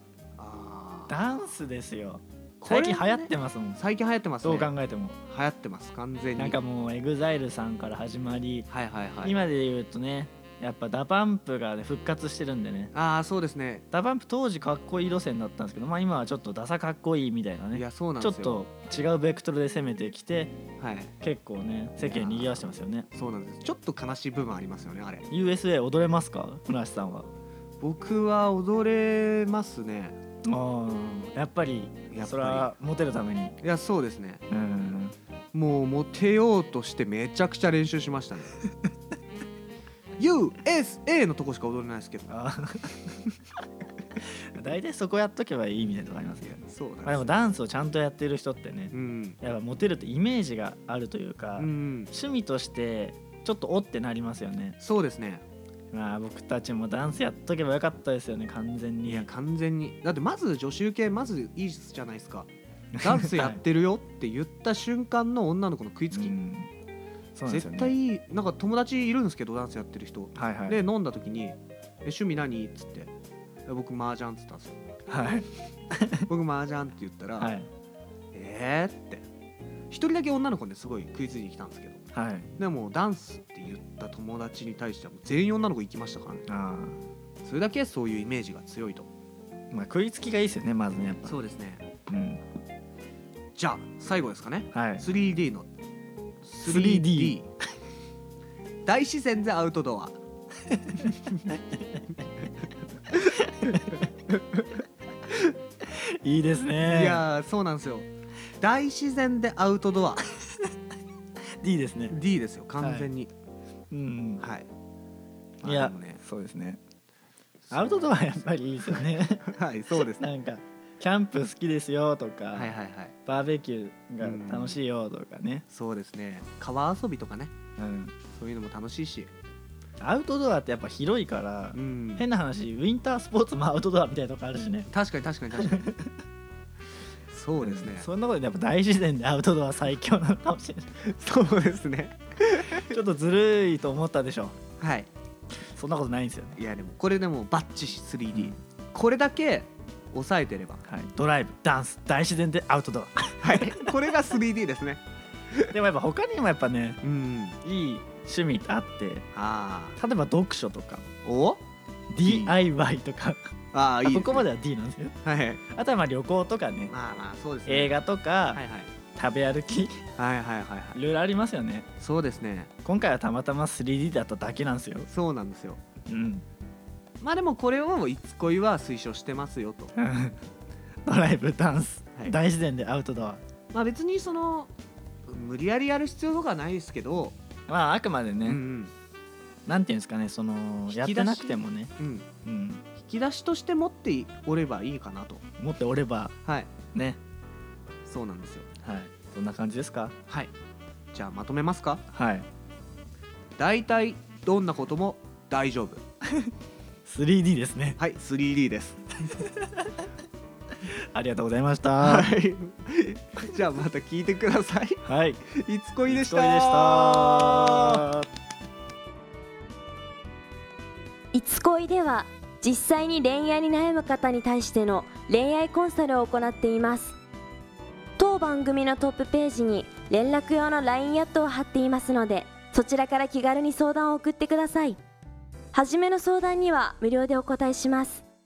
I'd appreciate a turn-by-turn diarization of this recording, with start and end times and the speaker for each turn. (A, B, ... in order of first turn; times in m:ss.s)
0:00.4-0:01.1 A
0:01.1-0:03.8 B
0:02.6-0:04.7 A
0:04.4-0:05.2 B
0:05.3-0:06.6 A
0:06.4-0:08.7 B
0:08.7-0:09.4 A
0:09.2-0:12.9 B
0:12.9-0:13.8 A
0:13.9-0:20.5 B
0:17.7-0:18.6 A
0:20.8-0:21.1 A
0:21.2-0:23.1 B
0:22.0-0:25.2 A
0:25.3-0:27.3 B
0:27.8-0:30.2 A
0:30.4-0:33.6 B
0:32.1-0:32.7 A
0:33.6-0:34.4 A
0:34.5-0:35.1 B
0:35.5-0:38.6 A
0:40.2-0:42.3 A
0:42.3-0:43.1 B
0:44.5-0:54.8 B
0:46.6-0:47.3 A
0:48.9-0:49.4 A
0:51.6-0:52.1 A
0:54.8-0:55.4 A
0:55.9-0:59.3 B
0:59.0-1:06.4 A
1:02.9-1:03.6 B
1:06.1-1:06.7 B
1:07.3-1:07.9 B
1:07.4-1:13.1 A
1:10.3-1:10.8 B
1:13.6-1:14.8 A
1:15.1-1:16.2 B
1:16.3-1:17.5 A
1:17.4-1:17.7 B
1:18.3-1:19.2 A
1:19.9-1:22.0 A
1:22.1-1:22.5 B
1:22.6-1:26.5 A
1:26.5-1:27.0 B
1:27.4-1:29.1 A
1:29.7-1:31.4 B
1:31.2-1:31.9 A
1:32.1-1:32.4 B
1:33.6-1:35.7 A
1:34.7-1:35.0 B
1:36.4-1:37.5 A
1:36.6-1:37.4 B
1:38.8-1:40.2 A
1:40.9-1:42.1 B
1:43.1-1:44.0 B
1:44.3-1:44.6 A
1:45.8-1:47.2 B
1:46.8-1:48.1 A
1:48.6-1:50.2 A
1:51.6-1:52.2 B
1:52.1-1:53.3 A
1:52.8-1:53.1 B
1:53.9-1:54.4 B
1:54.4-1:54.7 A
1:55.6-1:56.8 B
1:55.6-1:56.2 A
1:57.7-2:00.2 A
1:57.7-1:59.4 B
2:00.1-2:02.7 B
2:02.5-2:03.1 A
2:03.2-2:05.6 B
2:04.2-2:04.8 A
2:05.7-2:07.5 A
2:07.8-2:08.1 B
2:08.3-2:09.3 A
2:10.0-2:14.9 B
2:11.7-2:12.2 A
2:14.9-2:15.9 A
2:15.6-2:16.1 B
2:17.3-2:18.1 A
2:17.6-2:20.9 B
2:21.0-2:22.8 A
2:22.7-2:24.6 B
2:24.8-2:25.1 A
2:25.7-2:26.6 B
2:26.6-2:30.8 A
2:30.9-2:34.0 B
2:33.4-2:35.0 A
2:35.7-2:37.0 B
2:37.0-2:37.6 A
2:37.6-2:39.3 B
2:39.3-2:40.0 A
2:40.0-2:41.0 B
2:41.2-2:41.6 A
2:42.1-2:43.5 B
2:42.2-2:42.6 A
2:43.7-2:44.5 A
2:44.0-2:45.2 B
2:45.2-2:45.6 A
2:45.7-2:46.9 B
2:46.9-2:48.0 A
2:47.7-2:48.6 B
2:48.5-2:48.9 A
2:49.1-2:50.0 B
2:50.2-2:51.0 A
2:50.9-2:51.9 B
2:52.0-2:52.7 A
2:52.8-2:55.1 B
2:55.1-2:55.8 A
2:56.1-2:56.4 B
2:57.2-2:59.9 A
2:59.9-3:00.4 B
3:01.0-3:03.4 B
3:03.7-3:04.7 A
3:05.3-3:07.4 A
3:07.7-3:08.6 B
3:08.4-3:08.9 A
3:09.6-3:11.9 B
3:10.9-3:12.3 A
3:12.4-3:12.8 B
3:13.0-3:15.4 A
3:15.6-3:16.3 B
3:16.4-3:16.7 A
3:16.9-3:17.2 B
3:18.0-3:18.7 A
3:18.8-3:20.2 B
3:21.1-3:22.0 A
3:22.1-3:22.5 B
3:23.6-3:26.0 A
3:27.0-3:28.0 B
3:28.0-3:29.0 A
3:29.2-3:30.0 B
3:30.9-3:32.4 B
3:32.0-3:38.1 A
3:35.0-3:35.4 B
3:36.1-3:38.2 B
3:41.3-3:47.2 C
3:48.2-3:55.0 C
3:55.7-3:58.2 C